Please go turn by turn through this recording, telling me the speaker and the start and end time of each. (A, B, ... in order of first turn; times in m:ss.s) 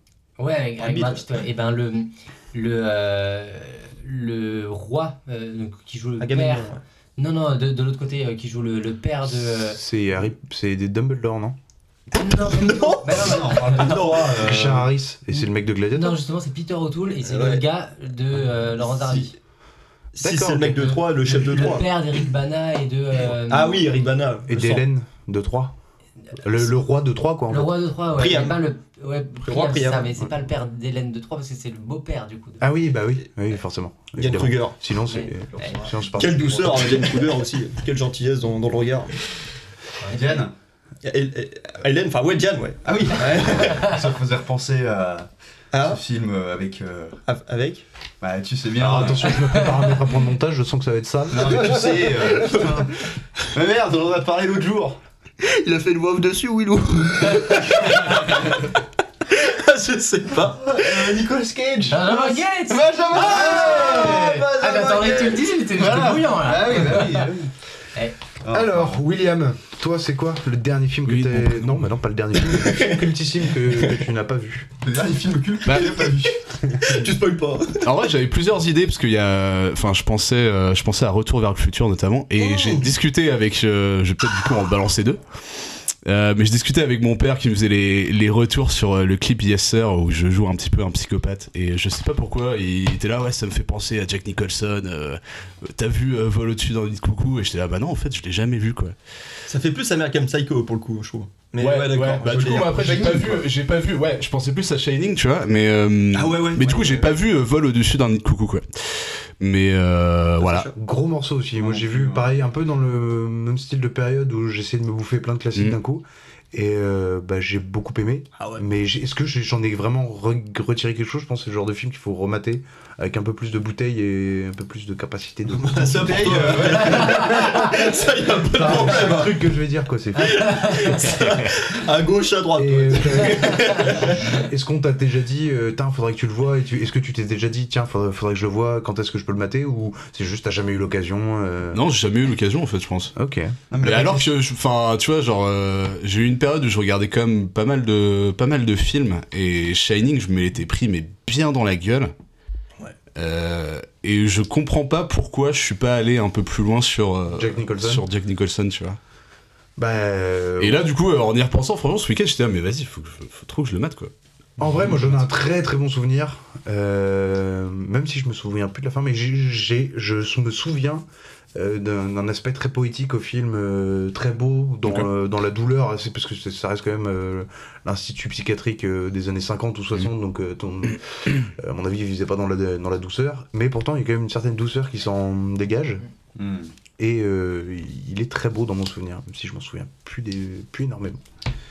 0:00.4-0:09.8 A
0:00.8-0:01.2 B
0:06.2-0:06.8 B
0:09.3-0:11.6 C
0:12.1-0:14.0 A
0:12.2-0:14.5 B
0:13.1-0:14.9 D
0:14.4-0:16.2 C
0:15.9-0:19.3 A
0:17.2-0:17.6 B
0:18.9-0:19.3 B
0:20.1-0:21.9 B
0:20.2-0:20.8 C
0:20.8-0:23.9 A
0:23.5-0:24.8 B
0:24.5-0:25.8 C
0:26.4-0:27.7 C
0:27.5-0:32.6 A
0:28.2-0:28.6 B
0:29.4-0:30.1 B
0:32.6-0:37.2 C
0:34.2-0:34.8 B
0:35.0-0:35.9 A
0:36.2-0:39.1 B
0:40.0-0:40.5 A
0:40.1-0:40.5 D
0:41.0-0:43.9 B
0:42.8-0:47.2 D
0:45.7-0:46.0 B
0:47.3-0:47.8 B
0:48.2-0:49.4 D
0:48.8-0:52.1 C
0:49.4-0:49.9 A
0:51.3-0:55.0 D
0:52.3-0:52.8 B
0:55.4-1:01.2 B
1:00.6-1:04.6 D
1:01.9-1:07.3 A
1:03.1-1:05.4 B
1:05.6-1:07.5 D
1:08.4-1:09.0 D
1:08.5-1:14.7 C
1:11.1-1:11.9 E
1:12.6-1:13.0 B
1:14.8-1:17.1 D
1:15.7-1:16.0 E
1:16.8-1:17.9 B
1:17.8-1:25.2 E
1:22.4-1:22.9 B
1:26.0-1:39.0 E
1:39.5-1:43.4 B
1:41.6-1:50.7 E
1:42.2-1:43.4 D
1:46.1-1:47.1 B
1:50.4-1:50.7 B
1:50.8-2:07.8 C
1:51.6-1:52.3 D
2:05.5-2:09.4 B
2:05.8-2:07.6 D
2:08.5-2:10.7 C
2:08.8-2:09.1 D
2:10.3-2:14.3 B
2:10.5-2:10.8 A
2:12.6-2:21.8 C
2:21.7-2:23.1 E
2:23.2-2:23.6 C
2:23.7-2:24.3 D
2:23.8-2:32.1 E
2:33.2-2:39.0 E
2:37.3-2:38.0 C
2:39.8-2:40.9 C
2:40.6-2:44.1 E
2:44.6-3:06.0 C
3:06.4-3:06.8 D
3:07.0-3:11.2 C